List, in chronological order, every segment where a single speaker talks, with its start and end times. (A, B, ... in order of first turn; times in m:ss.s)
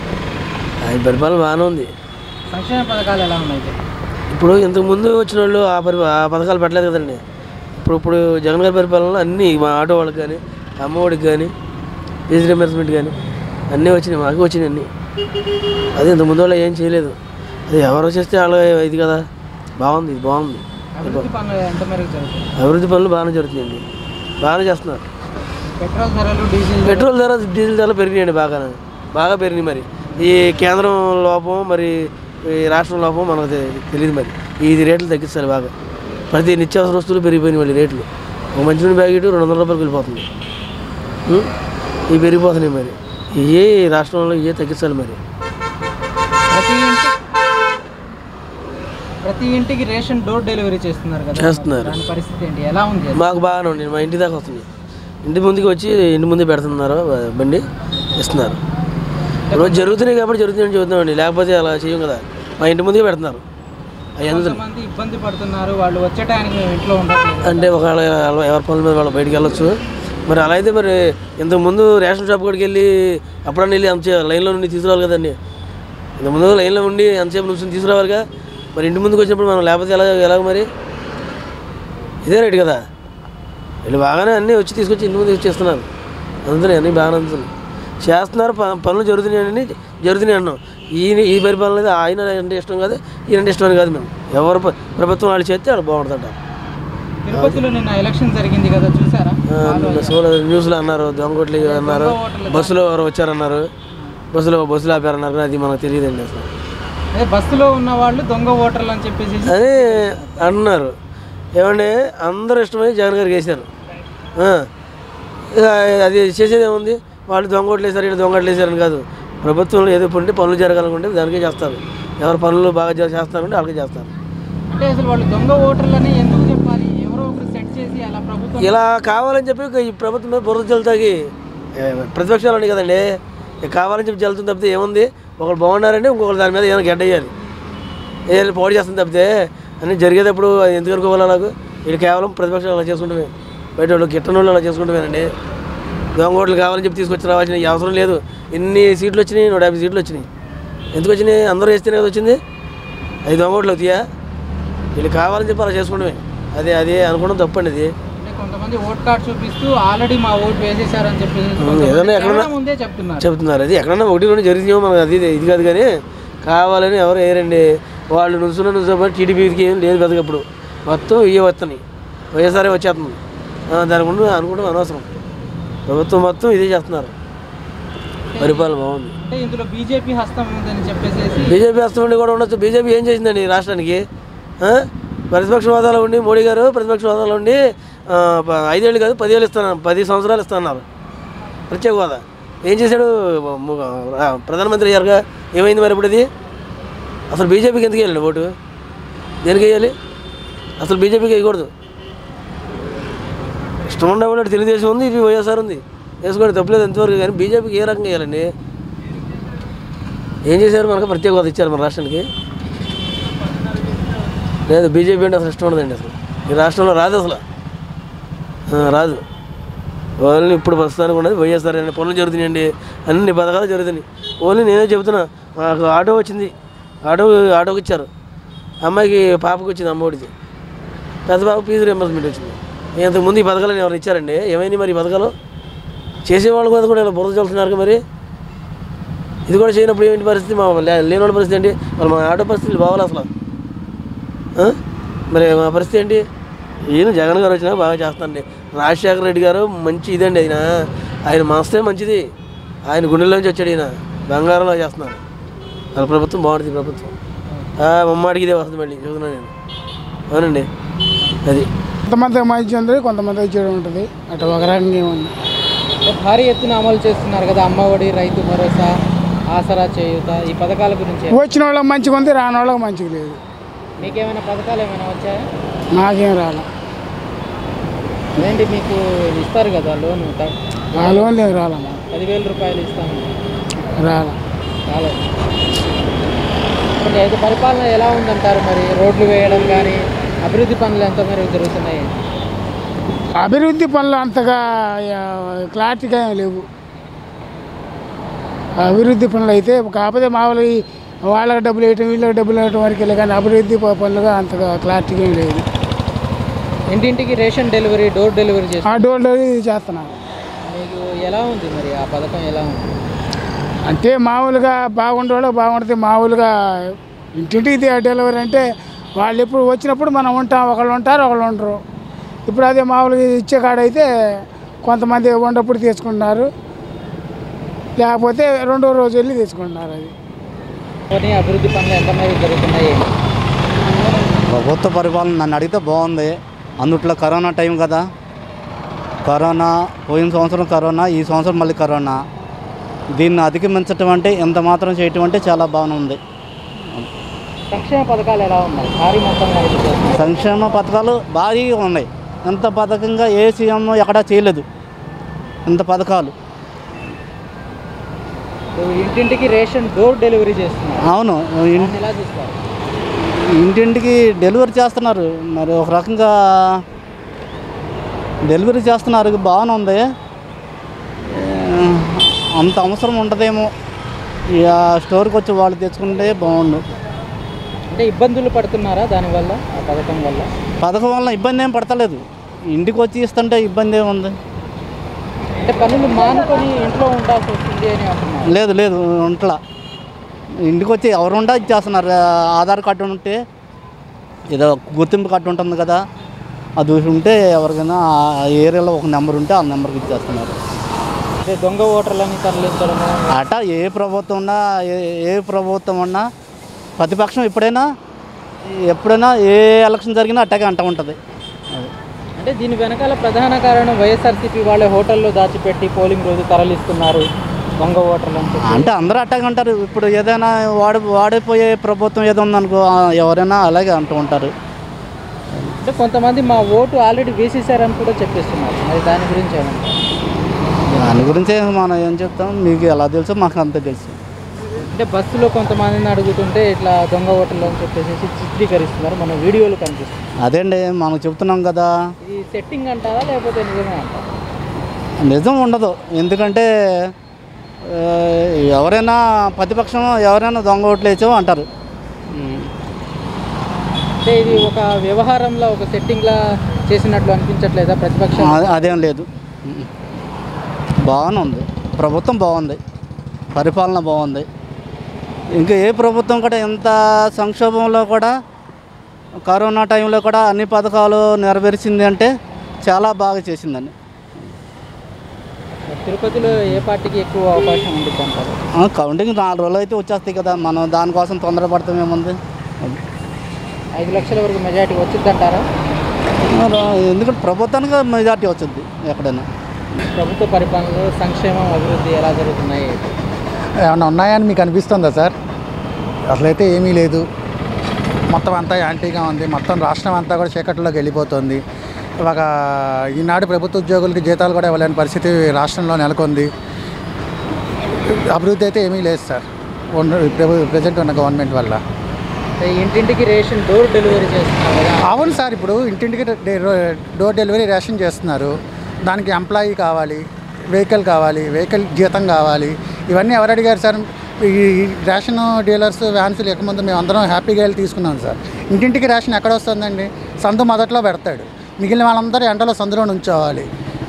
0:00.8-0:01.9 A
0:02.5-0:03.8 B
0:04.3-0:07.2 A
0:07.8-0:11.5 A
0:12.3-0:13.1 A
0:13.7-0:14.9 A
0:16.0-0:17.2 A
0:17.7-0:19.2 A
0:19.8-0:21.3 A
0:21.0-0:22.5 B
0:22.6-0:23.8 A
0:24.4-0:25.0 A
0:25.7-0:27.1 B
0:26.8-0:35.7 A
0:36.3-0:40.3 A
0:42.1-0:45.2 A
0:46.5-0:47.1 B
0:49.2-0:53.3 B
0:51.4-0:52.0 A
0:53.1-0:54.6 A
0:55.2-0:57.6 A
0:58.2-0:58.6 A
0:59.5-1:00.0 B
0:59.5-1:03.4 A
1:04.2-1:04.6 A
1:04.3-1:07.7 B
1:07.4-1:09.8 A
1:10.3-1:15.4 A
1:16.2-1:18.2 A
1:18.7-1:20.7 A
1:22.2-1:22.8 A
1:23.8-1:25.9 A
1:26.4-1:27.5 A
1:28.0-1:36.4 A
1:37.2-1:40.2 B
1:37.3-1:37.6 A
1:39.5-1:43.7 A
1:41.6-1:42.8 B
1:44.3-1:46.5 A
1:47.1-1:50.5 B
1:49.4-1:50.9 A
1:51.6-1:53.7 A
1:54.4-1:54.7 A
1:55.5-2:04.1 A
2:04.7-2:08.8 B
2:08.6-2:17.3 A
2:18.3-2:25.3 A
2:26.1-2:30.2 A
2:30.9-2:32.4 A
2:33.2-2:34.1 A
2:34.9-2:37.9 A
2:38.2-2:43.3 B
2:41.6-2:42.5 A
2:43.2-2:51.8 A
2:52.3-2:53.2 A
2:53.7-2:55.1 A
2:55.9-2:57.1 A
2:58.3-3:01.6 B
2:58.4-2:59.1 A
3:01.4-3:04.0 A
3:04.6-3:10.8 A
3:11.7-3:16.3 A
3:17.3-3:18.5 A
3:19.4-3:19.9 A
3:20.8-3:21.7 A
3:23.9-3:28.5 A
3:30.4-3:32.3 A
3:34.7-3:37.4 A
3:38.7-3:39.2 A
3:40.2-3:46.5 A
3:47.0-3:48.1 A
3:48.8-3:50.3 A
3:51.3-3:55.3 A
3:56.2-3:58.0 A
3:59.5-4:03.3 A
4:05.3-4:06.2 A
4:06.9-4:12.3 A
4:12.9-4:15.2 A
4:15.9-4:17.1 A
4:17.8-4:19.5 A
4:20.3-4:20.7 A
4:22.1-4:25.3 C
4:26.0-4:29.0 B
4:29.5-4:31.4 B
4:31.3-4:33.4 C
4:34.0-4:35.4 B
4:35.9-4:36.7 C
4:38.4-4:41.4 B
4:40.9-4:42.0 C
4:42.0-4:43.3 B
4:44.0-4:44.4 C
4:44.9-4:45.2 B
4:47.0-4:52.2 B
4:53.4-4:56.6 C
4:58.8-5:05.6 C
5:06.9-5:09.0 B
5:08.8-5:10.2 C
5:10.7-5:13.0 B
5:13.9-5:16.5 C
5:17.4-5:18.6 C
5:19.2-5:21.8 C
5:22.5-5:24.1 C
5:24.8-5:26.5 C
5:28.0-5:30.1 C
5:31.1-5:33.1 B
5:34.5-5:38.1 D
5:39.2-5:42.2 D
5:43.2-5:46.2 D
5:47.7-5:50.4 B
5:50.1-5:54.6 D
5:55.7-5:56.3 D
5:58.8-6:01.1 B
6:01.0-6:01.9 D
6:01.7-6:02.6 B
6:03.2-6:06.8 D
6:08.4-6:10.0 D
6:11.3-6:13.7 D
6:14.6-6:16.8 D
6:17.9-6:20.5 B
6:20.8-6:24.3 D
6:25.6-6:28.6 B
6:28.4-6:29.6 D
6:30.6-6:33.4 D
6:34.5-6:36.0 D
6:36.8-6:40.6 D
6:41.4-6:43.3 B
6:43.3-6:46.3 D
6:47.0-6:47.9 D
6:48.7-6:51.2 D
6:52.4-6:57.3 B
6:57.8-6:58.9 B
6:58.6-7:04.5 D
7:05.8-7:10.0 B
7:10.9-7:14.2 D
7:14.9-7:20.3 B
7:20.4-7:22.0 D
7:22.2-7:24.2 B
7:25.2-7:27.1 D
7:27.8-7:31.7 D
7:32.3-7:32.7 D
7:34.2-7:38.8 B
7:38.4-7:39.9 D
7:41.1-7:42.8 D
7:43.5-7:44.5 D
7:45.6-7:48.3 D
7:49.5-7:52.3 D
7:52.8-7:54.5 D
7:55.8-7:58.6 B
7:56.5-7:56.8 D
7:58.7-8:03.0 D
8:04.0-8:05.7 B
8:06.4-8:09.4 D
8:10.1-8:13.2 B
8:13.8-8:15.3 E
8:16.3-8:17.2 E
8:18.3-8:21.6 E
8:22.2-8:26.5 E
8:28.1-8:31.8 E
8:32.6-8:35.2 B
8:35.0-8:38.5 E
8:39.0-8:53.7 E